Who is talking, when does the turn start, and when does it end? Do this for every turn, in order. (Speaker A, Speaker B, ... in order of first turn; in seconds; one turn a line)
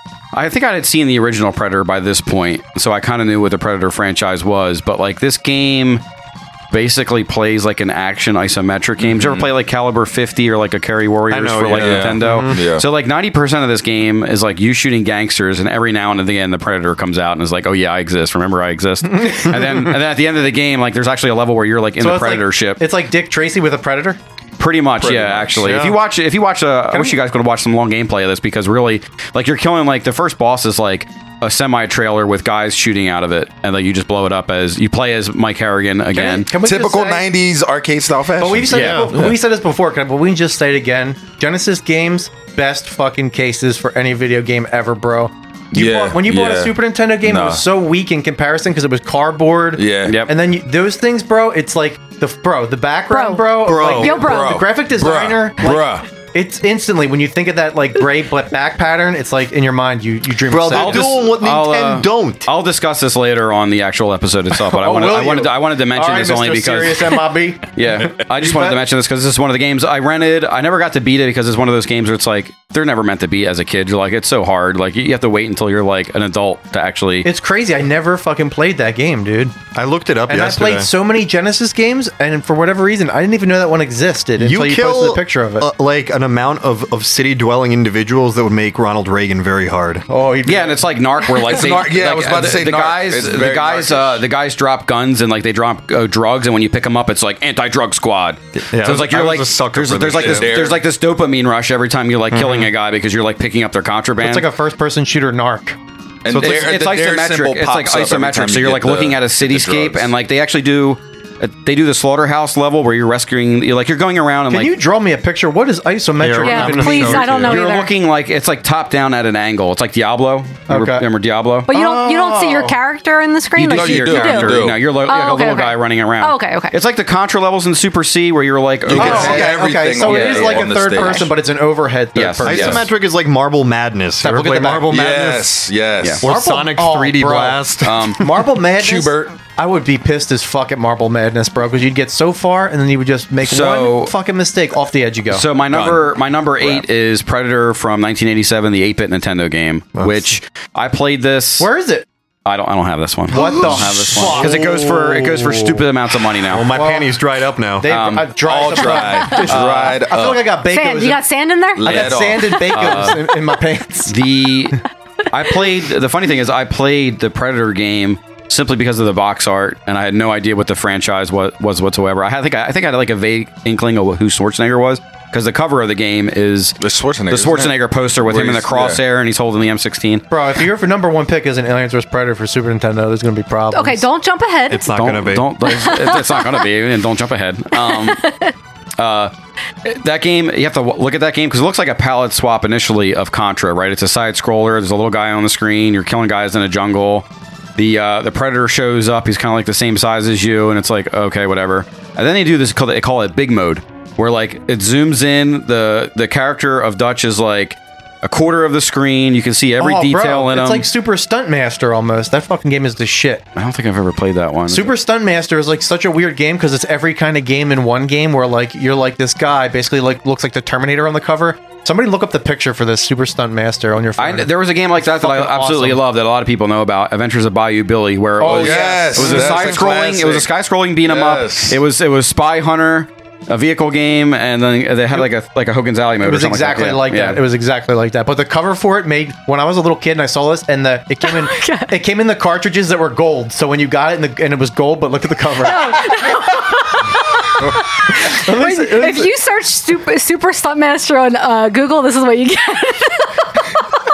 Speaker A: 0.3-6.0
Speaker A: 6.7-22.8
Speaker B: 9.0-9.5
Speaker C: 11.3-12.6
Speaker B: 11.7-12.8
Speaker D: 19.1-19.9
Speaker D: 22.0-24.2
Speaker A: 24.6-36.5
Speaker B: 25.0-25.9
Speaker D: 36.1-37.3
Speaker B: 36.6-39.4
Speaker D: 38.4-61.2
Speaker A: 38.7-39.1
Speaker C: 38.8-39.1
Speaker B: 45.7-47.6
Speaker B: 49.7-50.2
Speaker A: 50.0-50.3
Speaker E: 53.1-54.6
Speaker C: 53.6-54.2
Speaker B: 54.0-56.0
Speaker C: 60.5-62.5
Speaker A: 60.7-67.1
Speaker D: 64.5-67.7
Speaker A: 67.7-77.3
Speaker D: 68.2-68.8
Speaker D: 77.2-79.5
Speaker C: 79.7-80.9
Speaker D: 80.3-85.7
Speaker C: 84.4-90.0
Speaker D: 90.1-90.9
Speaker A: 90.4-104.5
Speaker B: 91.3-94.2
Speaker C: 98.7-100.5
Speaker B: 100.1-100.8
Speaker C: 102.3-102.7
Speaker D: 104.2-105.8
Speaker B: 106.2-110.1
Speaker C: 106.3-106.6
Speaker A: 106.3-114.7
Speaker D: 114.5-117.5
Speaker C: 116.2-117.6
Speaker E: 116.4-117.9
Speaker A: 117.4-122.7
Speaker D: 120.7-121.0
Speaker E: 121.7-126.7
Speaker A: 123.5-130.7
Speaker B: 123.7-124.8
Speaker B: 128.8-131.3
Speaker D: 128.9-132.8
Speaker A: 132.1-132.8
Speaker C: 132.4-135.7
Speaker D: 134.2-134.9
Speaker B: 134.9-136.2
Speaker C: 136.2-138.2
Speaker D: 136.2-145.5
Speaker A: 137.8-138.2
Speaker B: 138.8-139.4
Speaker A: 143.4-144.1
Speaker A: 145.3-151.7
Speaker B: 145.7-146.1
Speaker C: 149.9-150.3
Speaker D: 151.6-152.1
Speaker A: 152.4-156.7
Speaker D: 153.3-155.3
Speaker C: 153.3-153.7
Speaker C: 154.4-155.8
Speaker C: 156.5-157.9
Speaker D: 156.7-157.1
Speaker D: 157.8-161.2
Speaker A: 157.8-160.0
Speaker B: 158.4-160.5
Speaker E: 160.7-162.5
Speaker B: 161.8-162.6
Speaker D: 161.8-164.1
Speaker A: 162.7-163.2
Speaker A: 164.1-164.8
Speaker A: 165.3-176.8
Speaker B: 176.8-179.0
Speaker A: 177.3-180.2
Speaker D: 180.3-184.0
Speaker E: 183.7-184.9
Speaker C: 184.7-185.4
Speaker A: 184.9-188.3
Speaker E: 185.7-186.6
Speaker E: 187.7-188.5
Speaker A: 189.0-189.3
Speaker A: 189.8-210.8
Speaker D: 209.8-213.4
Speaker A: 213.5-214.9
Speaker D: 214.7-226.0
Speaker A: 224.2-237.4
Speaker D: 228.4-229.7
Speaker B: 228.4-230.5
Speaker B: 231.0-231.8
Speaker D: 236.2-246.8
Speaker E: 241.2-241.9
Speaker E: 245.6-253.5
Speaker D: 247.6-249.3